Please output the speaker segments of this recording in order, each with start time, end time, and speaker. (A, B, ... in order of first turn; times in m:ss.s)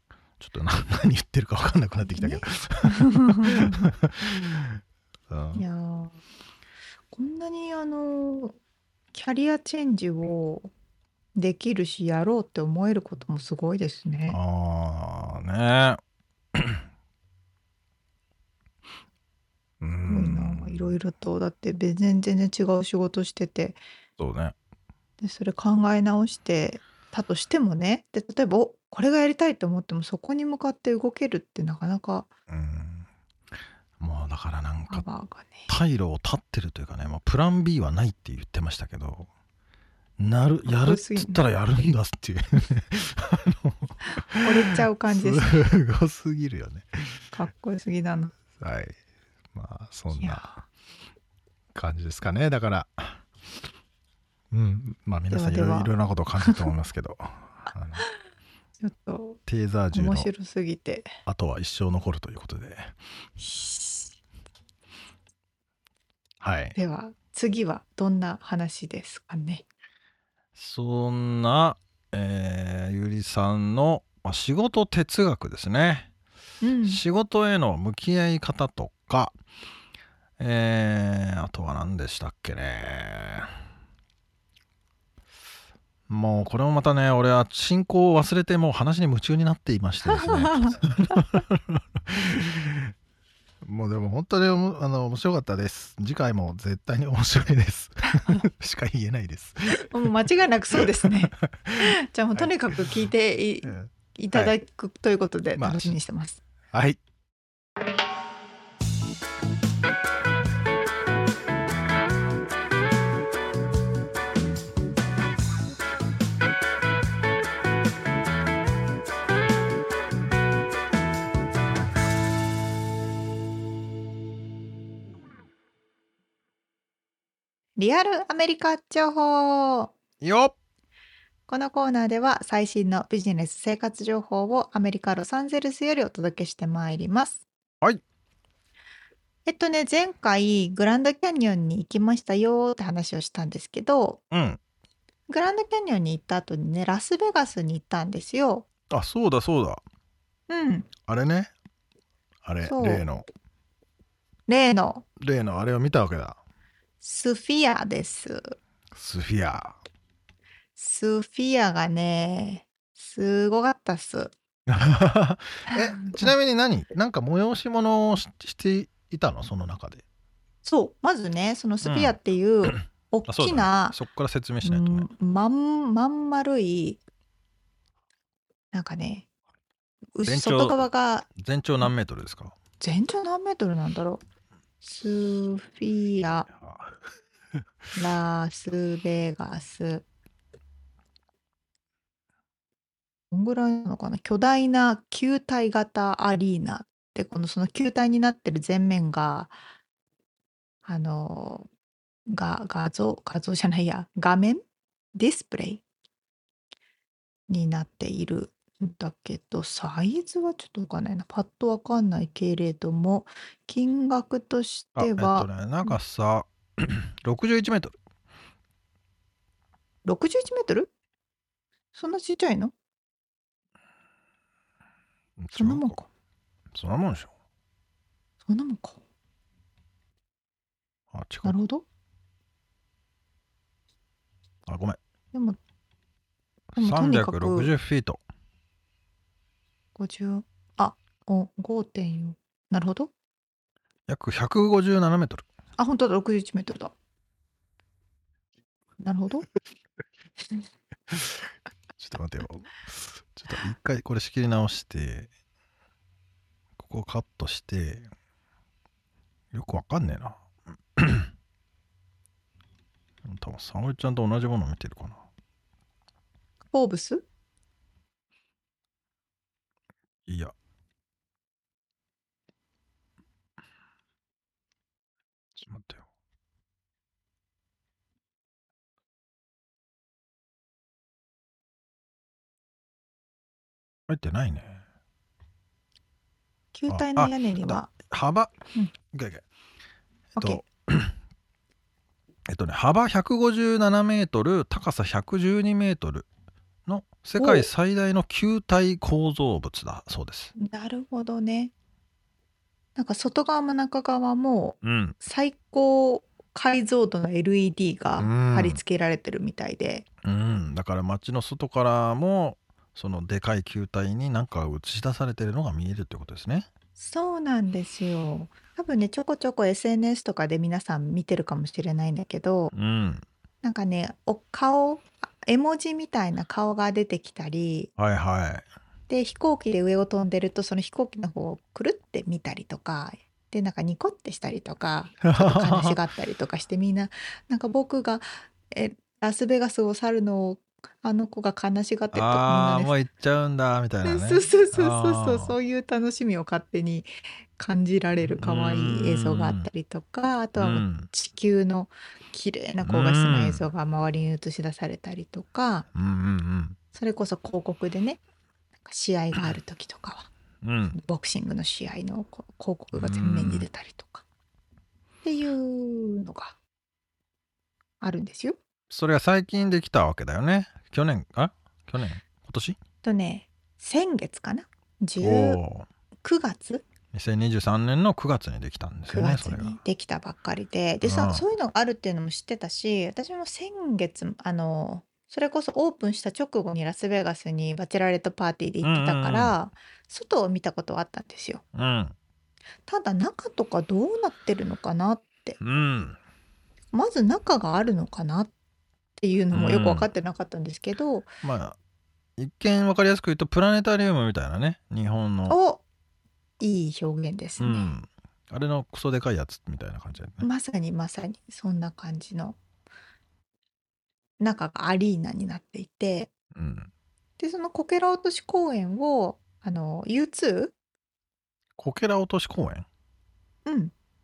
0:00.4-0:05.6 A
0:02.0-0:03.9 B
0:05.5-0:06.2 B
0:07.1-0:08.6 B
0:09.1-0:10.7 B
0:11.3-0:14.4 B
0:14.3-0:16.0 A
0:16.5-0:16.8 A
0:19.8-0:20.9 A
0:20.1-0:23.8 B
0:24.2-0:24.5 A
0:25.2-0:32.3 B
0:32.5-0:33.1 A
0:34.0-0:35.1 A
0:34.9-0:35.7 B
0:35.7-0:39.3 A
0:40.2-0:47.2 A
0:40.6-0:41.4 B
0:44.4-0:45.6 B
0:47.3-0:48.3 B
0:48.6-0:49.0 A
0:49.5-0:50.5 A
0:50.2-0:50.6 B
0:51.7-0:53.2 A
0:54.5-0:58.0 A
0:55.3-0:55.9 B
0:56.4-0:56.7 B
0:58.8-0:59.4 B
0:59.5-1:00.3 A
0:59.9-1:01.1 B
1:01.2-1:02.9 A
1:03.4-1:04.1 B
1:06.4-1:06.8 A
1:06.7-1:09.6 B
1:10.5-1:16.1 A
1:16.6-1:17.0 B
1:16.8-1:19.4 A
1:20.4-1:23.5 A
1:26.1-1:32.9 A
1:30.0-1:31.2 B
1:33.6-1:40.1 A
1:38.1-1:38.4 B
1:39.8-1:46.4 B
1:40.7-1:42.9 A
1:43.6-1:44.5 A
1:45.6-1:45.9 A
1:46.7-1:47.0 A
2:07.8-2:09.9 B
2:10.2-2:10.5 A
2:11.5-2:17.4 B
2:19.4-2:24.2 B
2:24.3-2:24.6 A
2:25.3-2:28.7 B
2:28.9-2:29.8 A
2:30.5-2:30.9 B
2:31.1-2:31.5 A
2:32.4-2:33.2 A
2:32.6-2:33.0 B
2:34.5-2:35.0 B
2:35.2-2:36.4 A
2:37.0-2:38.6 B
2:38.9-2:39.8 A
2:40.8-2:44.3 B
2:44.7-2:50.0 A
2:45.7-2:46.3 B
2:50.6-2:54.0 B
2:51.8-2:55.1 A
2:54.6-2:57.0 B
2:58.7-2:59.2 B
3:00.1-3:01.3 B
3:00.2-3:02.5 A
3:02.8-3:04.2 B
3:04.8-3:06.5 B
3:06.5-3:07.0 A
3:07.9-3:10.0 B
3:13.3-3:19.5 B
3:20.8-3:21.7 B
3:22.3-3:24.6 B
3:25.1-3:25.8 B
3:27.5-3:36.0 B
3:35.0-3:38.0 A
3:40.0-3:40.9 B
3:41.9-3:42.7 B
3:45.4-3:45.9 A
3:45.6-3:46.1 B
3:46.7-3:47.3 A
3:48.4-3:49.0 B
3:51.1-3:51.6 A
3:51.4-3:51.8 B
3:54.7-3:55.0 A
3:55.3-3:55.6 B
3:56.7-3:58.2 A
3:56.8-3:57.7 B
4:00.0-4:03.1 B
4:04.1-4:05.4 A
4:05.8-4:06.9 B
4:09.0-4:09.5 B
4:11.1-4:11.4 A
4:12.0-4:15.3 A
4:16.8-4:18.1 A
4:19.5-4:20.4 A
4:21.0-4:21.3 A
4:23.2-4:25.2 A
4:26.7-4:27.2 B
4:30.3-4:30.5 A
4:35.6-4:36.0 A
4:44.1-4:44.8 A
4:46.7-4:47.9 B
4:46.9-4:48.5 A
4:49.1-4:49.4 A
4:50.4-4:50.6 B
4:50.4-4:51.1 A
4:52.5-4:56.3 A
4:56.8-5:00.5 A
4:57.4-4:57.7 B
5:00.6-5:01.7 B
5:03.0-5:10.0 B
5:04.8-5:05.2 A
5:08.2-5:08.8 A
5:10.2-5:16.7 A
5:17.0-5:22.7 B
5:22.7-5:23.2 A
5:23.6-5:27.9 B
5:28.0-5:28.6 A
5:29.1-5:42.9 B
5:35.2-5:36.0 A
5:42.1-5:45.6 A
5:44.0-5:55.9 B
5:48.3-5:49.7 A
5:50.6-5:51.1 A
5:52.8-5:53.7 A
5:55.9-5:56.8 A
5:56.9-5:58.2 B
5:58.8-6:00.3 B
6:00.6-6:01.0 A
6:00.9-6:04.2 B
6:02.9-6:03.7 A
6:05.2-6:06.6 B
6:08.0-6:08.6 B
6:08.9-6:12.8 A
6:13.0-6:15.6 B
6:15.2-6:15.9 A
6:16.2-6:16.8 B
6:17.1-6:19.8 A
6:19.1-6:31.6 B
6:21.0-6:21.4 A
6:28.8-6:29.6 A
6:31.7-6:32.1 A
6:32.9-6:35.6 B
6:35.6-6:36.2 A
6:36.9-6:38.5 B
6:39.2-6:41.3 B
6:39.5-6:40.1 A
6:41.4-6:41.8 A
6:42.4-6:45.6 A
6:45.5-6:45.8 B
6:46.6-6:47.9 B
6:47.6-6:50.5 A
6:50.4-6:52.6 B
6:54.4-6:56.3 B
6:56.5-6:56.9 A
6:57.4-7:00.7 B
7:01.8-7:02.8 A
7:03.6-7:03.9 B